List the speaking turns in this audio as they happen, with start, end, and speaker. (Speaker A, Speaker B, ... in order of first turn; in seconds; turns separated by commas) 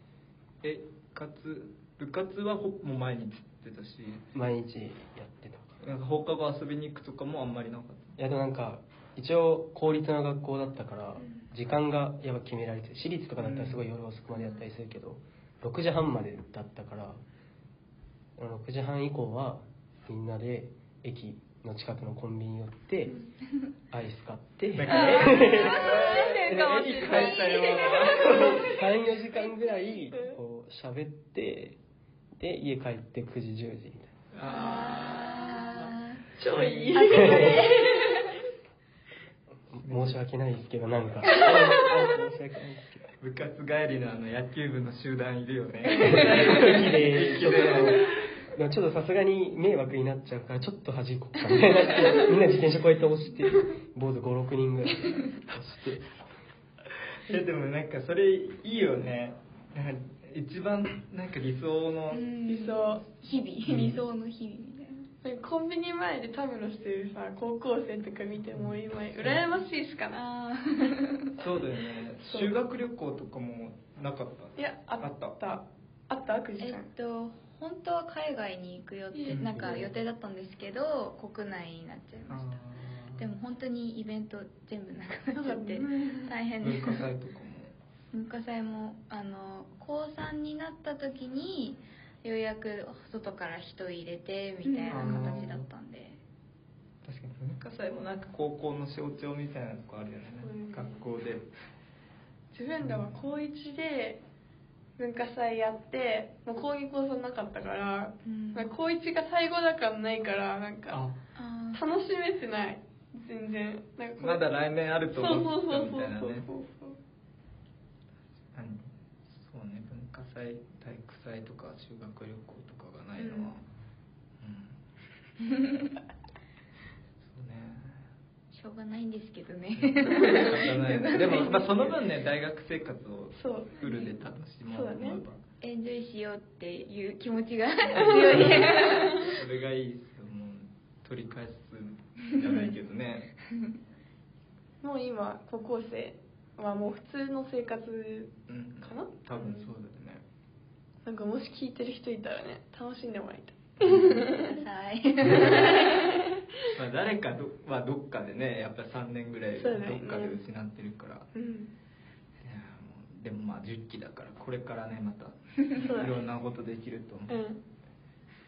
Speaker A: 0.6-4.3, Speaker B: 4.3-5.8, Speaker A: 5.8-8.1, Speaker B: 8.2-17.2, Speaker A: 13.3-13.8, Speaker B: 18.4-23.2, Speaker B: 23.9-25.9, Speaker A: 24.7-28.8, Speaker C: 24.9-28.3, Speaker D: 26.9-28.6, Speaker B: 28.3-31.8, Speaker B: 32.4-34.1, Speaker A: 34.3-37.6, Speaker C: 34.5-36.2, Speaker D: 36.4-38.1, Speaker B: 37.1-37.5, Speaker C: 37.2-37.9, Speaker B: 39.7-43.0, Speaker A: 39.8-40.2, Speaker A: 41.4-42.0, Speaker A: 43.2-48.1, Speaker C: 45.9-46.7, Speaker B: 46.0-56.0, Speaker A: 57.1-62.2, Speaker C: 62.1-65.1, Speaker D: 62.5-63.0, Speaker A: 63.6-64.0, Speaker D: 65.2-70.2, Speaker A: 68.5-69.5, Speaker C: 70.1-71.3, Speaker A: 71.4-75.4, Speaker D: 72.3-72.5, Speaker D: 74.6-76.9, Speaker C: 76.6-82.6, Speaker D: 79.1-79.8, Speaker A: 79.3-79.9, Speaker A: 82.3-83.3, Speaker C: 83.2-87.0, Speaker D: 85.3-86.3, Speaker A: 86.6-87.7, Speaker C: 88.1-96.2, Speaker D: 94.6-95.4, Speaker A: 94.9-95.6, Speaker A: 97.0-101.5, Speaker D: 100.4-101.0, Speaker D: 102.5-104.2, Speaker A: 102.8-103.2, Speaker D: 105.0-111.0, Speaker C: 108.2-108.8, Speaker A: 110.9-111.2, Speaker C: 111.3-111.9, Speaker D: 111.7-114.4, Speaker A: 114.2-116.5, Speaker D: 115.1-117.0, Speaker A: 118.5-123.6, Speaker D: 123.2-123.5, Speaker A: 124.4-124.8, Speaker A: 127.2-128.0, Speaker C: 128.5-132.0, Speaker A: 129.8-135.4, Speaker D: 131.1-131.4, Speaker D: 133.3-134.1, Speaker D: 134.7-135.2, Speaker C: 135.6-139.3, Speaker A: 137.9-143.3, Speaker D: 138.2-138.9, Speaker D: 144.8-149.7, Speaker A: 148.5-150.2, Speaker D: 151.0-154.6, Speaker A: 153.8-154.2, Speaker C: 153.9-156.1, Speaker D: 155.2-156.3, Speaker A: 156.7-161.3, Speaker D: 159.6-160.4, Speaker D: 161.3-161.7, Speaker A: 162.4-167.4, Speaker D: 165.8-166.2, Speaker D: 167.3-167.6